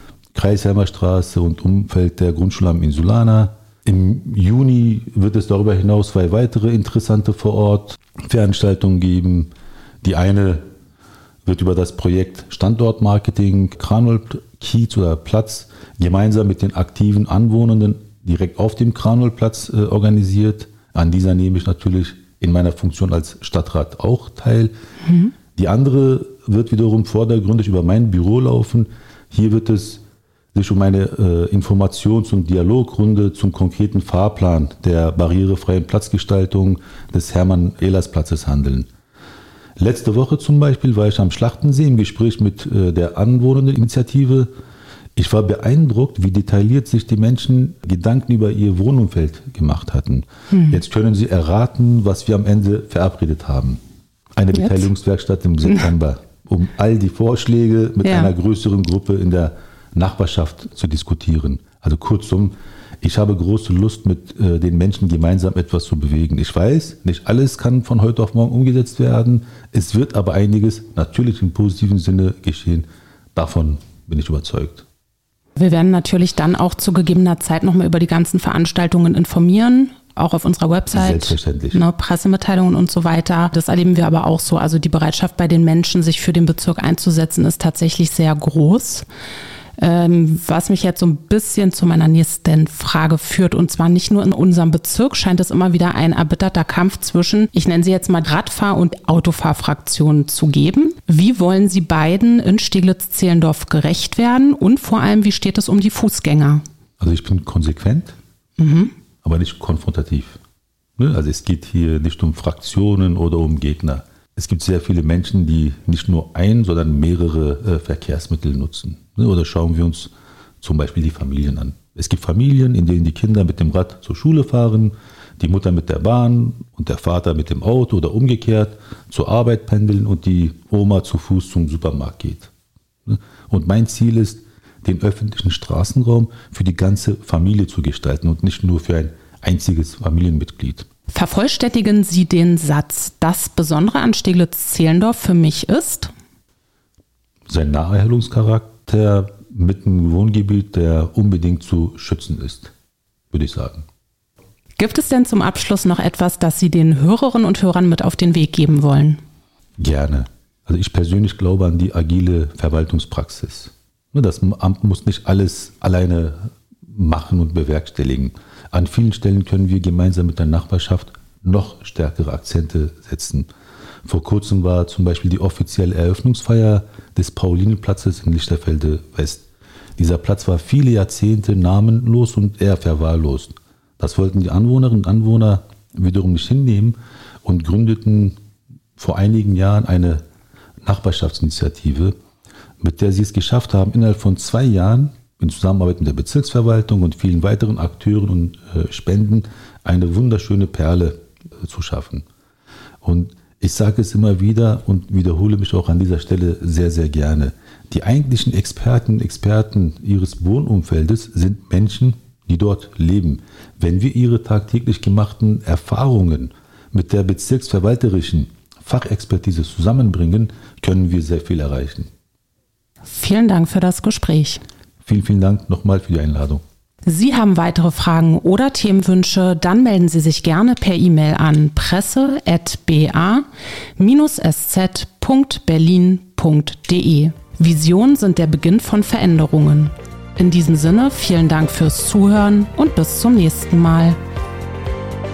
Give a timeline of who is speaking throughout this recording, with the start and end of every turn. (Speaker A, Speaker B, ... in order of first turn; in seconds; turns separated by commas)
Speaker A: 0.3-9.5, Speaker A: 10.0-10.7, Speaker A: 11.4-24.7, Speaker B: 25.1-25.3, Speaker A: 25.5-30.0, Speaker A: 30.5-38.9, Speaker A: 39.8-44.5, Speaker A: 45.2-53.8, Speaker B: 50.5-50.8, Speaker A: 54.4-74.8, Speaker B: 54.6-54.8, Speaker B: 58.0-58.3, Speaker B: 75.6-89.1, Speaker A: 80.9-81.8, Speaker B: 89.8-106.6, Speaker A: 107.0-108.2, Speaker B: 108.6-108.9, Speaker A: 109.2-110.4, Speaker A: 111.0-132.5, Speaker A: 133.1-140.9, Speaker B: 141.1-146.1, Speaker A: 147.5-152.7, Speaker A: 153.3-153.8, Speaker B: 154.8-159.2, Speaker A: 159.8-173.5, Speaker A: 174.1-179.4, Speaker A: 180.0-188.3, Speaker A: 189.0-190.2, Speaker A: 190.8-192.2, Speaker A: 192.8-202.3, Speaker A: 203.0-222.1, Speaker B: 223.1-224.6, Speaker A: 225.0-226.6, Speaker B: 227.1-233.4, Speaker B: 234.0-244.2